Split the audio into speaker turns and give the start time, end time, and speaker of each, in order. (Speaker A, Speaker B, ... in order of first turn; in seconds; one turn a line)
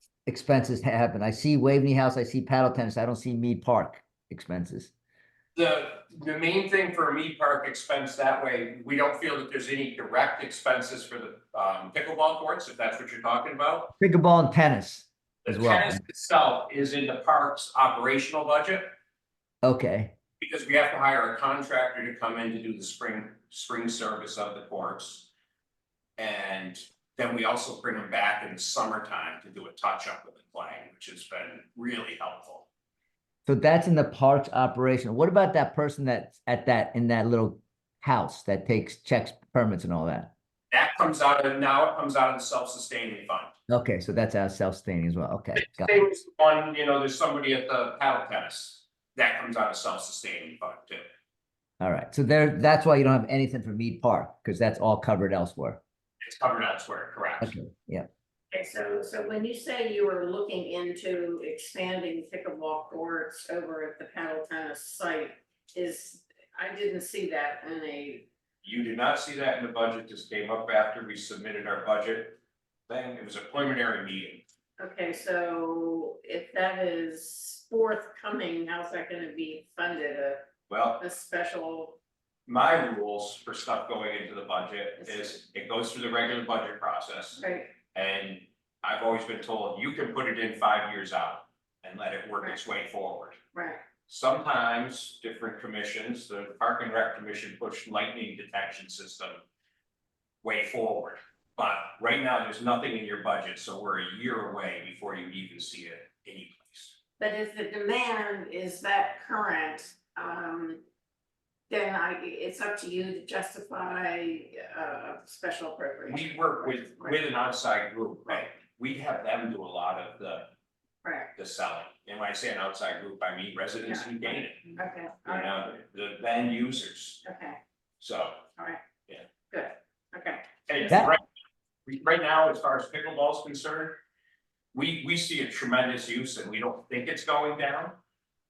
Speaker A: 0.2-4.9
Speaker B: 5.5-13.9
Speaker A: 14.0-16.0
Speaker B: 15.4-18.9
Speaker A: 19.6-20.1
Speaker B: 20.4-25.3
Speaker B: 26.2-32.7
Speaker A: 33.5-40.3
Speaker B: 40.7-43.5
Speaker A: 43.7-46.0
Speaker B: 45.5-51.0
Speaker A: 51.8-55.8
Speaker B: 56.2-57.5
Speaker A: 57.4-58.1
Speaker C: 58.5-68.3
Speaker B: 68.6-74.4
Speaker C: 74.8-80.4
Speaker B: 80.7-81.0
Speaker C: 81.0-82.0
Speaker B: 82.5-87.4
Speaker C: 85.0-85.3
Speaker C: 87.4-87.7
Speaker B: 87.9-93.4
Speaker C: 93.5-93.8
Speaker B: 94.1-99.4
Speaker B: 100.4-106.9
Speaker C: 107.2-110.8
Speaker C: 111.7-117.2
Speaker B: 116.1-120.5
Speaker C: 121.0-121.3
Speaker B: 121.3-127.2
Speaker C: 123.8-125.5
Speaker C: 127.2-127.6
Speaker B: 128.0-128.4
Speaker C: 129.5-130.9
Speaker B: 130.7-131.2
Speaker A: 130.9-131.1
Speaker B: 131.8-134.0
Speaker B: 134.7-137.9